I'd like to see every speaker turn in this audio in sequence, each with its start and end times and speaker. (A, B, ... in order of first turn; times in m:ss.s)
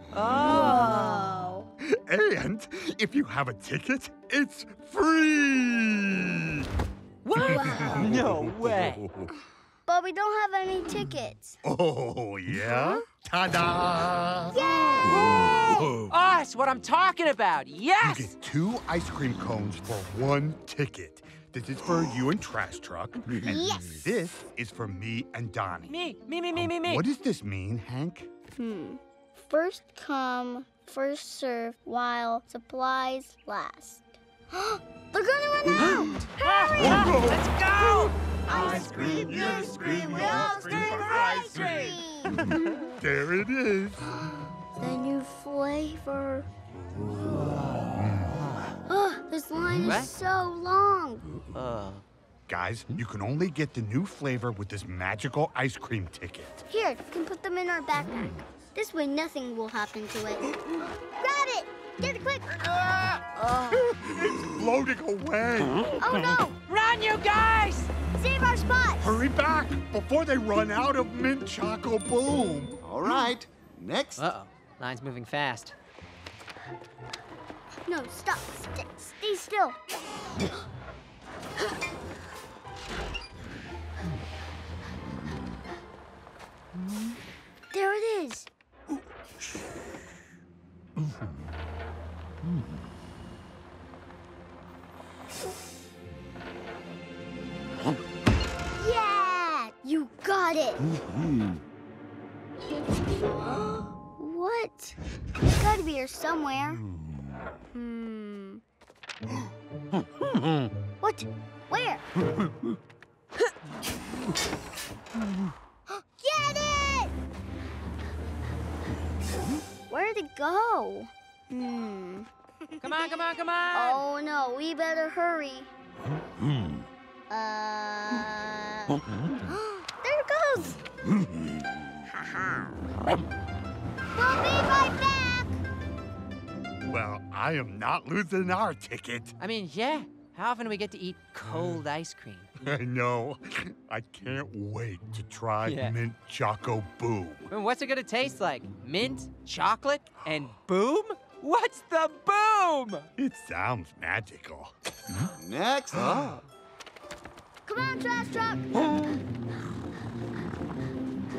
0:00.1-0:01.3 A
0:00.4-0:01.7 B
0:01.8-0:06.7 C
0:07.2-0:09.0 A
0:07.4-0:08.1 B
0:07.6-0:09.3 C
0:09.8-0:11.6 B
0:11.6-0:15.2 C
0:12.6-0:13.0 B
0:14.5-0:16.0 B
0:15.1-0:15.4 A
0:16.0-0:18.3 A
0:18.0-0:26.0 C
0:23.4-0:24.2 B
0:25.9-0:27.0 A
0:26.5-0:28.3 C
0:28.6-0:37.1 B
0:36.2-0:42.0 A
0:36.8-0:44.0 C
0:38.5-0:42.6 B
0:44.8-0:46.5 B
0:46.9-0:47.3 C
0:47.9-0:48.4 C
0:48.8-0:51.3 B
0:49.8-0:50.1 A
0:51.5-0:52.0 A
0:52.5-0:56.6 C
0:56.7-1:00.5 B
1:01.2-1:02.6 B
1:02.7-1:06.2 C
1:03.4-1:03.8 B
1:06.0-1:06.6 B
1:06.6-1:07.9 A
1:08.1-1:09.2 B
1:09.0-1:12.8 C
1:12.8-1:14.3 D
1:14.2-1:15.7 A
1:17.9-1:19.8 B
1:27.7-1:28.5 B
1:38.8-1:40.8 B
1:43.3-1:45.0 B
1:45.5-1:46.8 B
1:47.7-1:48.6 B
1:51.0-1:52.0 B
1:55.9-1:57.1 B
1:59.9-2:02.3 B
2:02.8-2:04.0 A
2:02.8-2:03.2 B
2:03.7-2:05.7 B
2:07.3-2:10.8 B
2:14.1-2:15.6 B
2:16.9-2:19.3 C
2:19.4-2:22.5 A
2:22.6-2:27.5 C
2:25.6-2:26.0 A
2:27.5-2:33.1 A
2:33.2-2:34.7 C
2:35.3-2:36.4 D
2:37.6-2:38.8 B